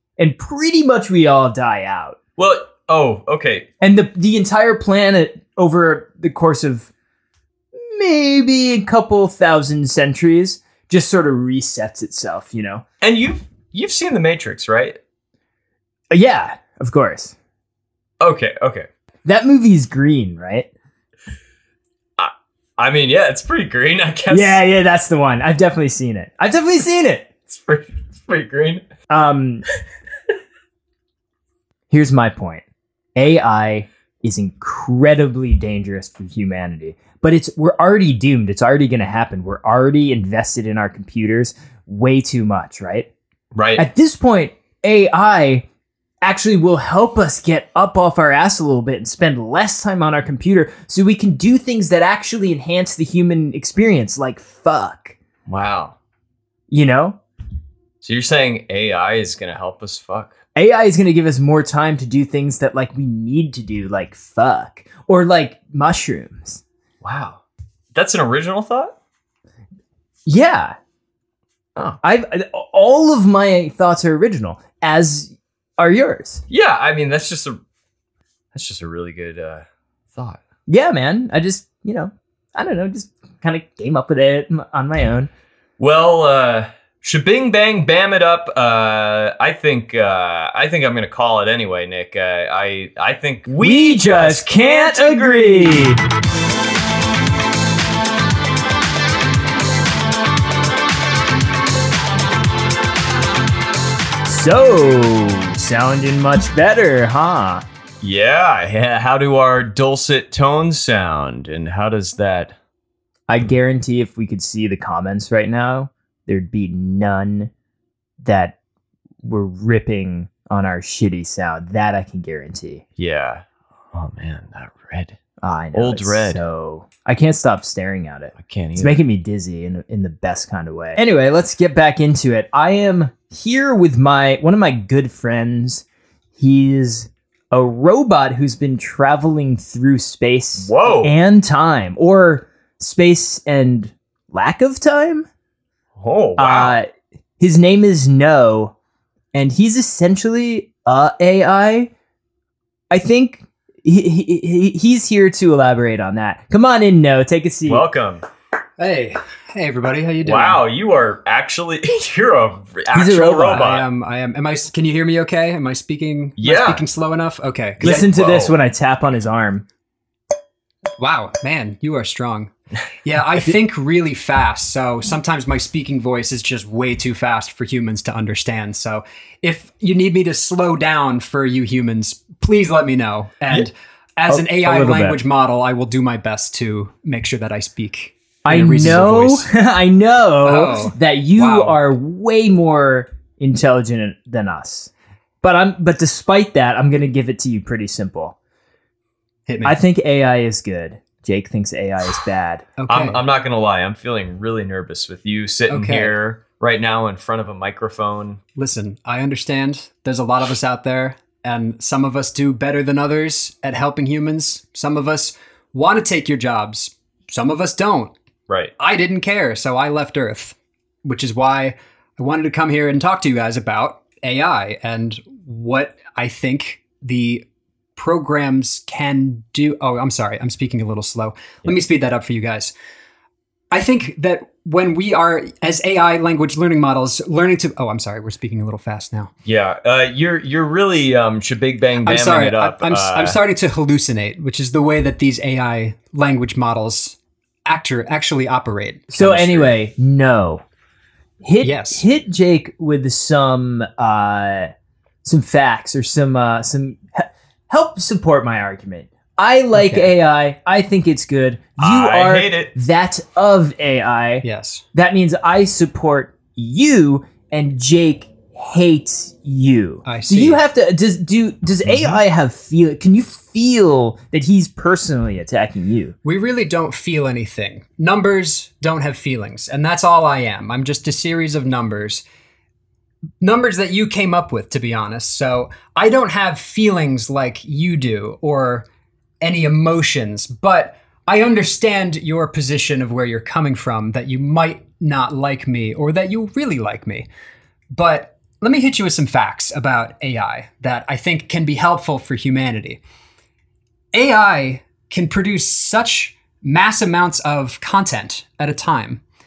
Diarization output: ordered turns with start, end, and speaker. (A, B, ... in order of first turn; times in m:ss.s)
0:00.2-0:02.2 A
0:02.4-0:03.7 B
0:03.8-0:06.9 A
0:07.8-0:12.8 A
0:13.0-0:15.0 B
0:16.1-0:17.4 A
0:18.2-0:18.9 B
0:19.2-0:20.7 A
0:22.2-0:24.6 B
0:24.3-0:27.3 A
0:27.5-0:28.8 B
0:29.1-0:29.6 A
0:31.9-0:32.6 A
0:33.2-0:43.1 A
0:43.5-0:43.9 B
0:43.8-0:45.7 A
0:46.2-0:55.2 A
0:55.5-0:56.0 B
0:56.7-0:57.2 A
0:58.0-1:00.4 B
1:00.6-1:06.6 A
1:07.0-1:07.4 B
1:07.9-1:09.0 B
1:10.3-1:10.8 A
1:12.0-1:16.4 A
1:16.5-1:17.6 B
1:18.5-1:20.4 B
1:20.7-1:25.3 A
1:25.8-1:36.0 B
1:33.6-1:36.0 A
1:44.3-1:47.6 A
1:48.0-1:52.6 B
1:53.3-1:57.5 A
1:58.2-1:58.6 A
1:59.2-2:02.8 A
2:03.0-2:05.2 B
2:05.4-2:25.3 A
2:05.7-2:06.4 B
2:08.4-2:09.0 B
2:20.6-2:21.2 B
2:26.0-2:26.8 B
2:26.4-2:26.9 A
2:27.4-2:28.7 A
2:29.3-2:31.9 A
2:32.9-2:37.8 A
2:37.7-2:38.2 B
2:38.8-2:40.6 C
2:40.2-2:43.9 B
2:42.9-2:43.7 A
2:43.6-2:48.1 C
2:46.4-2:46.8 B
2:47.8-2:48.6 B
2:47.8-2:49.6 A
2:51.0-2:52.5 C
2:53.0-3:09.5 C
3:04.3-3:05.2 A
3:08.4-3:14.9 A
3:10.4-3:11.8 C
3:15.4-3:18.4 A
3:19.5-3:19.8 C
3:19.6-3:22.7 A
3:22.8-3:23.2 C
3:22.9-3:28.4 B
3:25.7-3:26.2 C
3:28.6-3:38.1 C
3:38.8-3:47.4 C
3:48.0-3:52.7 C
3:53.7-3:59.3 C
3:59.4-4:03.4 B
4:02.0-4:09.7 C
4:09.1-4:10.6 A
4:11.4-4:14.7 A
4:11.6-4:12.0 C
4:15.2-4:36.2 A
4:19.7-4:20.1 C
4:21.8-4:22.7 B
4:24.4-4:24.8 C
4:30.1-4:30.6 C
4:36.2-4:42.2 C
4:43.4-4:48.9 C
4:49.4-4:57.3 C
4:58.0-5:03.0 C
5:04.1-5:09.2 C